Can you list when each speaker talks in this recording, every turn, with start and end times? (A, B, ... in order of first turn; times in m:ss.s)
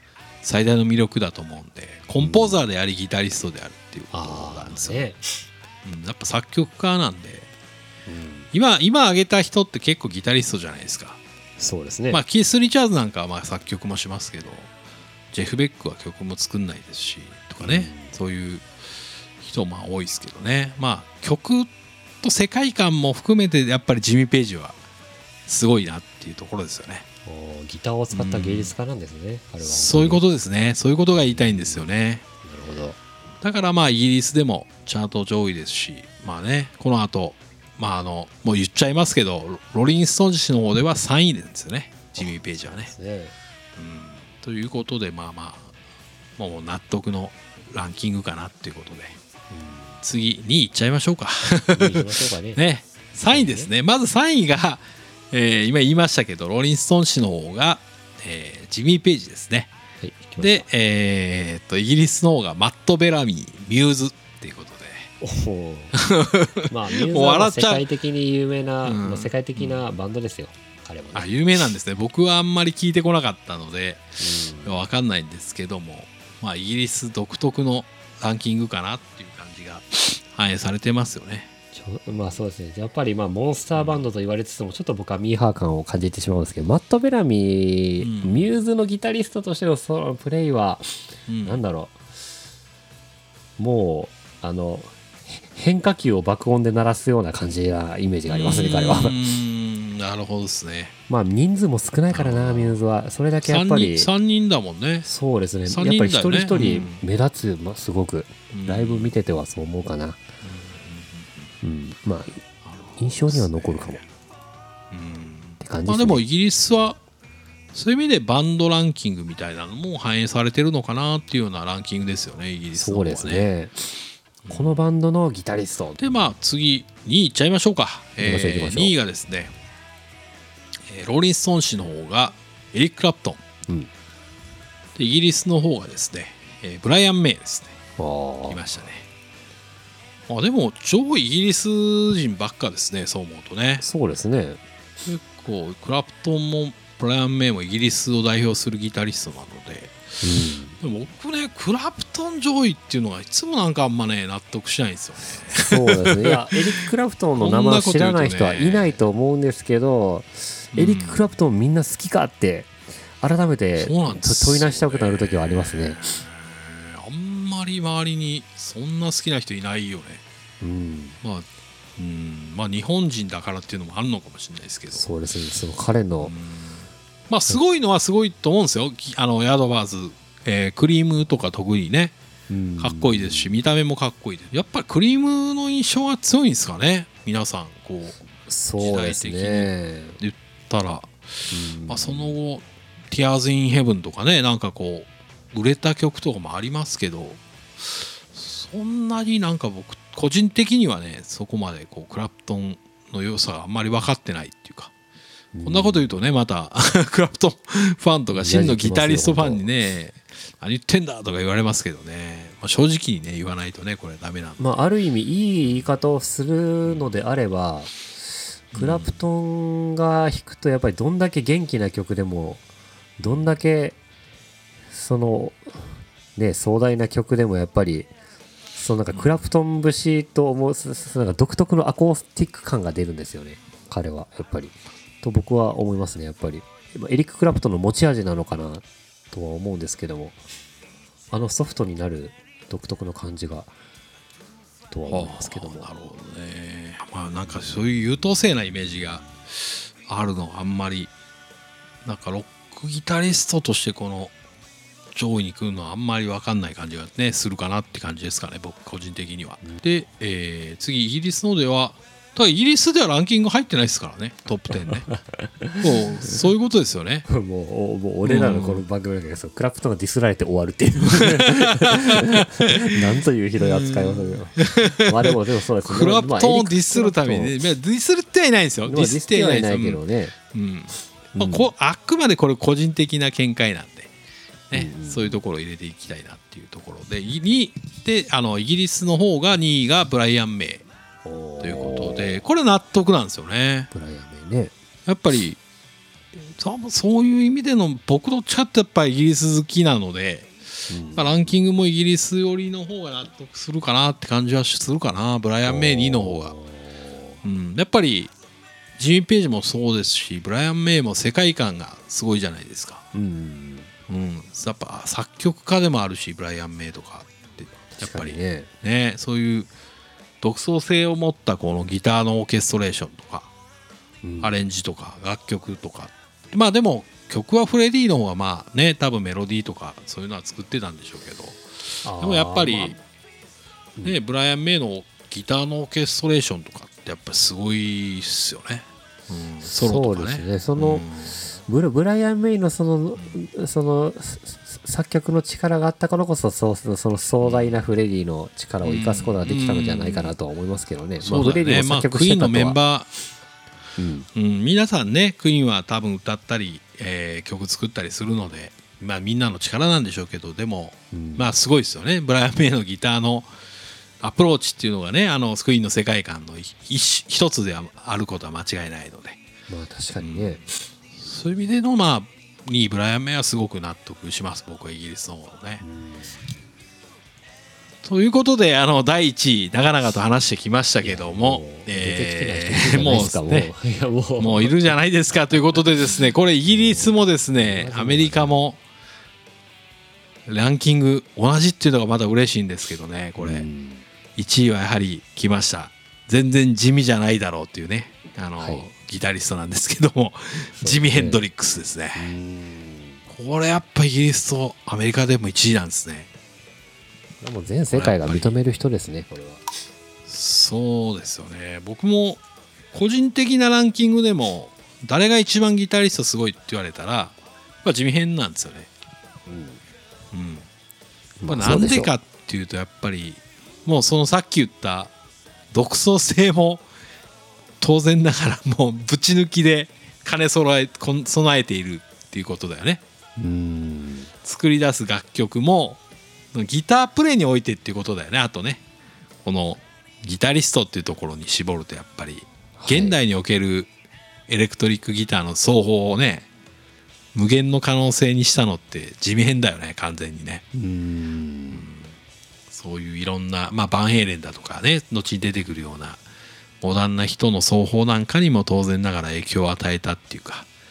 0:00.4-0:05.1 A
0:02.2-0:02.6 B
0:04.1-0:05.2 B
0:05.8-0:07.5 A
0:08.1-0:08.5 B
0:08.5-0:11.2 A
0:11.6-0:12.2 B
0:12.1-0:14.7 A
0:15.3-0:18.6 A
0:17.6-0:18.1 B
0:19.4-0:21.7 A
0:22.2-0:24.8 A
0:25.5-0:27.0 A
0:27.2-0:30.2 B
0:28.1-0:28.7 A
0:29.6-0:32.2 A
0:31.2-0:31.9 B
0:32.4-0:33.0 B
0:33.4-0:42.9 A
0:42.2-0:43.3 B
0:43.8-0:45.7 A
0:46.4-0:49.2 A
0:49.5-0:50.0 B
0:50.0-0:59.7 A
0:51.7-0:52.6 B
0:53.3-0:53.7 B
1:00.0-1:00.7 B
1:00.4-1:05.1 A
1:05.2-1:06.0 B
1:05.9-1:07.8 A
1:06.7-1:11.3 B
1:08.8-1:09.8 A
1:11.1-1:21.5 A
1:14.2-1:14.8 B
1:21.7-1:30.9 B
1:23.7-1:24.0 A
1:28.0-1:28.5 A
1:31.3-1:31.6 A
1:31.4-1:32.0 B
1:33.6-1:39.2 B
1:38.3-1:40.9 A
1:41.1-1:44.1 B
1:42.1-1:42.8 A
1:43.4-1:45.1 A
1:45.0-1:50.2 B
1:45.7-1:47.0 A
1:48.5-1:49.1 A
1:50.4-1:51.5 A
1:51.6-1:52.4 B
1:52.6-1:54.0 A
1:53.0-1:54.0 B
1:54.9-1:57.0 A
1:55.6-1:56.2 B
1:57.7-2:03.5 A
2:02.7-2:03.9 B
2:04.4-2:04.8 A
2:04.5-2:06.0 B
2:06.0-2:09.5 A
2:08.2-2:08.9 B
2:10.9-2:13.4 A
2:15.0-2:17.7 A
2:18.0-2:18.6 B
2:18.5-2:19.0 A
2:20.3-2:23.8 A
2:23.8-2:24.6 B
2:25.0-2:30.0 A
2:30.2-2:30.8 B
2:30.8-2:36.3 A
2:35.5-2:46.2 B
2:37.4-2:39.0 A
2:40.7-2:41.2 A
2:43.8-2:50.2 A
2:50.6-2:51.2 B
2:52.0-2:55.1 A
2:54.9-2:56.3 B
2:56.2-3:02.1 A
3:02.5-3:03.5 B
3:02.8-3:08.2 A
3:08.5-3:10.2 B
3:08.8-3:11.1 A
3:11.5-3:12.3 B
3:11.9-3:24.9 A
3:25.5-3:26.1 B
3:25.6-3:34.6 A
3:28.3-3:29.6 B
3:34.6-3:38.1 B
3:38.7-3:42.6 B
3:38.7-3:39.2 A
3:43.2-3:44.0 B
3:44.9-3:45.8 B
3:46.4-3:48.1 B
3:48.8-4:00.4 B
3:49.1-3:49.4 A
4:01.3-4:03.7 B
4:04.9-4:05.9 B
4:05.1-4:11.1 A
4:12.0-4:14.3 A
4:15.1-4:25.1 A
4:25.1-4:26.4 B
4:25.8-4:27.2 A
4:27.3-4:37.7 B
4:28.2-4:28.8 A
4:31.2-4:32.4 A
4:33.6-4:40.0 A
4:38.8-4:40.4 B
4:40.5-4:44.1 A
4:41.3-4:41.7 B
4:44.7-4:50.9 A
4:44.7-4:45.4 B
4:51.2-4:52.4 B
4:51.6-4:53.9 A
4:53.9-4:54.7 B
4:55.1-4:55.6 A
4:56.4-5:00.5 A
5:00.9-5:01.6 B
5:01.1-5:06.5 A
5:05.6-5:07.3 B
5:07.4-5:08.3 A
5:09.0-5:13.0 A
5:13.1-5:13.9 B
5:14.1-5:19.7 A
5:17.8-5:18.7 B
5:20.4-5:23.5 A
5:24.2-5:24.6 B
5:24.4-5:33.0 A
5:32.0-5:33.0 B
5:34.0-5:41.4 A
5:39.6-5:41.1 B
5:41.6-5:52.8 B
5:47.4-5:47.8 A
5:48.8-5:50.3 A
5:51.2-5:53.1 A
5:54.0-5:54.3 B
5:54.3-6:03.5 A
6:01.1-6:01.6 B
6:04.2-6:09.4 A
6:09.7-6:10.8 B
6:10.2-6:10.6 A
6:11.1-6:15.8 A
6:15.8-6:16.4 B
6:18.0-6:23.7 A
6:21.0-6:25.0 B
6:24.4-6:28.8 A
6:26.7-6:28.6 B
6:30.5-6:33.6 A
6:33.4-6:34.0 B
6:34.4-6:42.3 A
6:38.6-6:38.8 B
6:40.8-6:41.4 B
6:42.1-6:43.2 B
6:43.3-6:46.3 A
6:47.4-6:49.6 B
6:47.9-6:48.5 A
6:50.3-6:52.4 A
6:52.9-6:58.9 A
6:59.5-6:59.8 B
7:00.3-7:00.6 A
7:01.4-7:02.1 B
7:01.5-7:05.1 A
7:05.7-7:06.8 A
7:07.8-7:13.0 A
7:13.4-7:14.3 B
7:14.4-7:16.0 A
7:16.5-7:18.8 A
7:19.4-7:23.9 A
7:22.8-7:23.2 B
7:24.5-7:26.5 A
7:27.3-7:30.6 A
7:30.7-7:31.8 B
7:31.7-7:32.1 A
7:32.7-7:36.2 A
7:36.8-7:40.7 A